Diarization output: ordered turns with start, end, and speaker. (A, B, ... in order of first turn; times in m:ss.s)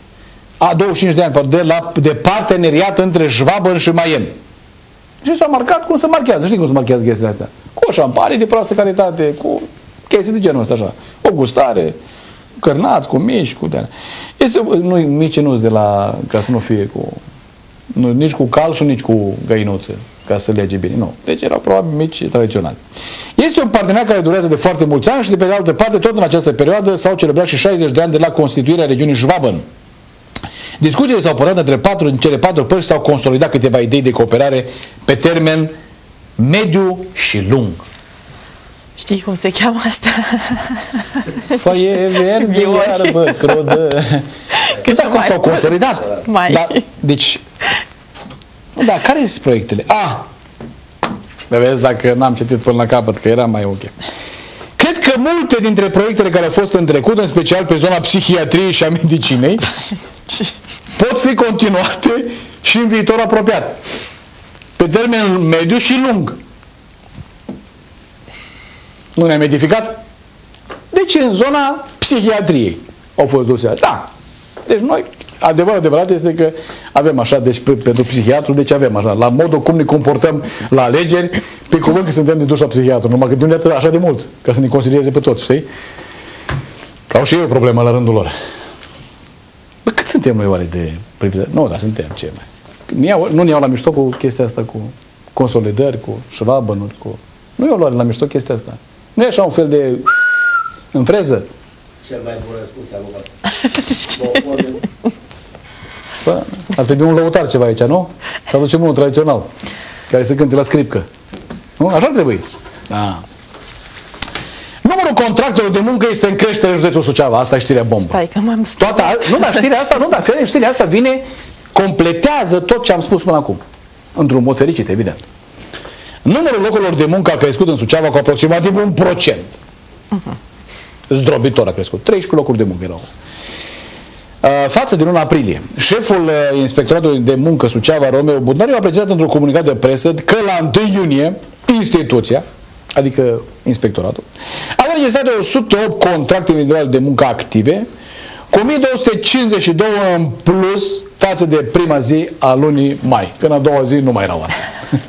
0:00.6-0:04.3 A
0:05.2-0:12.0 A
0:12.6-0:17.2 A
0:17.9-0:22.8 A
0:23.4-0:29.6 A
0:30.8-0:35.7 A
0:36.4-0:37.8 A
0:39.0-0:43.6 B
0:41.6-0:47.4 A
0:44.6-0:46.8 B
0:48.8-0:50.2 A
0:51.5-0:53.9 A
0:54.8-0:59.7 A
1:01.0-1:03.8 A
1:04.8-1:06.4 A
1:09.1-1:10.0 A
1:10.9-1:14.1 A
1:14.6-1:25.6 A
1:27.1-1:28.3 A
1:29.8-1:40.2 A
1:40.9-1:41.5 A
1:42.0-1:43.3 C
1:44.1-1:44.8 C
1:46.2-1:49.5 A
1:50.1-1:51.0 A
1:51.8-1:53.2 A
1:54.8-1:58.2 A
1:58.0-1:59.6 B
1:58.8-2:03.6 A
2:04.1-2:05.2 A
2:06.2-2:09.5 A
2:11.1-2:13.1 A
2:14.4-2:22.4 A
2:22.9-2:24.2 A
2:24.8-2:27.8 A
2:28.5-2:34.6 A